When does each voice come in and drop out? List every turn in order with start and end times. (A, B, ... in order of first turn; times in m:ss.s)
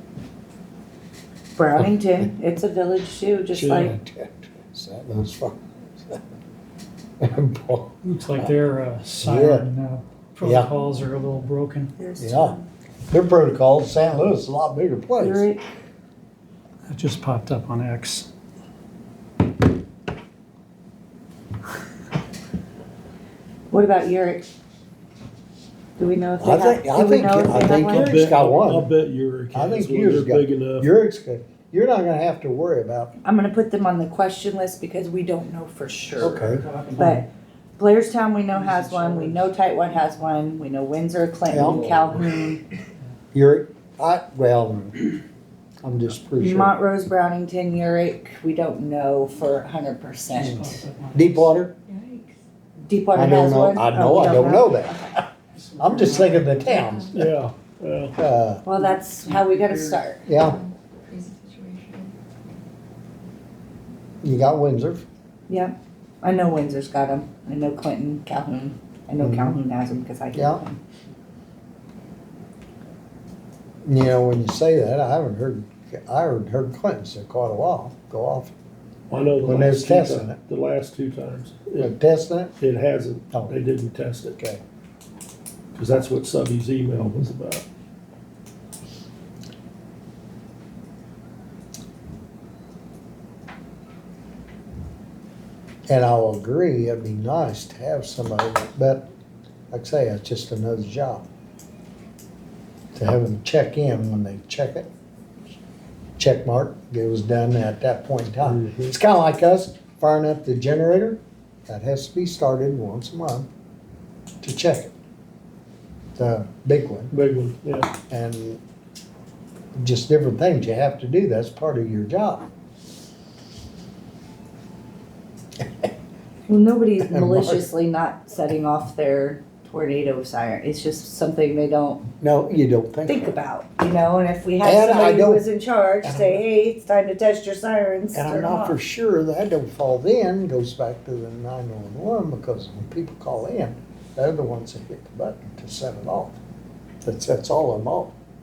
0:01.6-0:03.9 A
0:03.5-0:03.9 B
0:03.7-0:06.2 C
0:07.2-0:08.5 C
0:08.0-0:11.9 D
0:09.2-0:09.7 C
0:10.4-0:10.7 C
0:12.0-0:12.6 A
0:12.2-0:12.6 C
0:13.1-0:15.5 C
0:15.2-0:15.6 A
0:16.9-0:18.3 D
0:23.7-0:24.5 A
0:26.0-0:28.1 A
0:26.4-0:28.9 C
0:27.5-0:30.9 B
0:29.5-0:33.1 C
0:33.2-0:42.6 A
0:36.2-0:36.6 C
0:36.3-0:37.2 D
0:38.6-0:39.4 D
0:41.5-0:42.0 C
0:43.3-0:45.2 C
0:45.8-0:46.7 C
0:46.4-0:50.8 A
0:50.4-0:51.5 D
0:51.1-0:51.7 C
0:51.9-0:52.4 E
0:52.8-0:55.1 A
0:53.1-0:55.2 C
0:55.6-0:56.8 D
0:55.8-0:57.3 C
0:56.8-0:57.2 E
0:57.1-0:58.1 B
0:58.2-0:58.6 C
0:58.6-1:00.3 A
0:59.5-1:00.0 D
1:00.2-1:00.6 C
1:00.3-1:02.1 E
1:04.2-1:05.0 C
1:05.5-1:10.8 A
1:09.2-1:09.6 C
1:10.3-1:10.6 C
1:13.8-1:18.5 C
1:19.1-1:21.9 B
1:19.4-1:20.4 C
1:21.8-1:22.5 C
1:22.6-1:24.4 B
1:25.7-1:27.6 B
1:35.9-1:39.0 C
1:39.7-1:41.2 C
1:42.9-1:44.9 C
1:46.2-1:53.5 C
1:48.4-1:48.9 B
1:54.4-1:54.9 C
1:56.2-1:57.1 C
1:57.1-1:57.9 B
1:58.1-1:58.6 C
1:59.8-2:02.5 C
2:06.5-2:12.0 A
2:07.1-2:07.7 C
2:12.2-2:13.3 C
2:13.0-2:18.8 A
2:14.6-2:15.4 C
2:16.0-2:16.4 C
2:18.1-2:26.4 C
2:27.0-2:28.1 C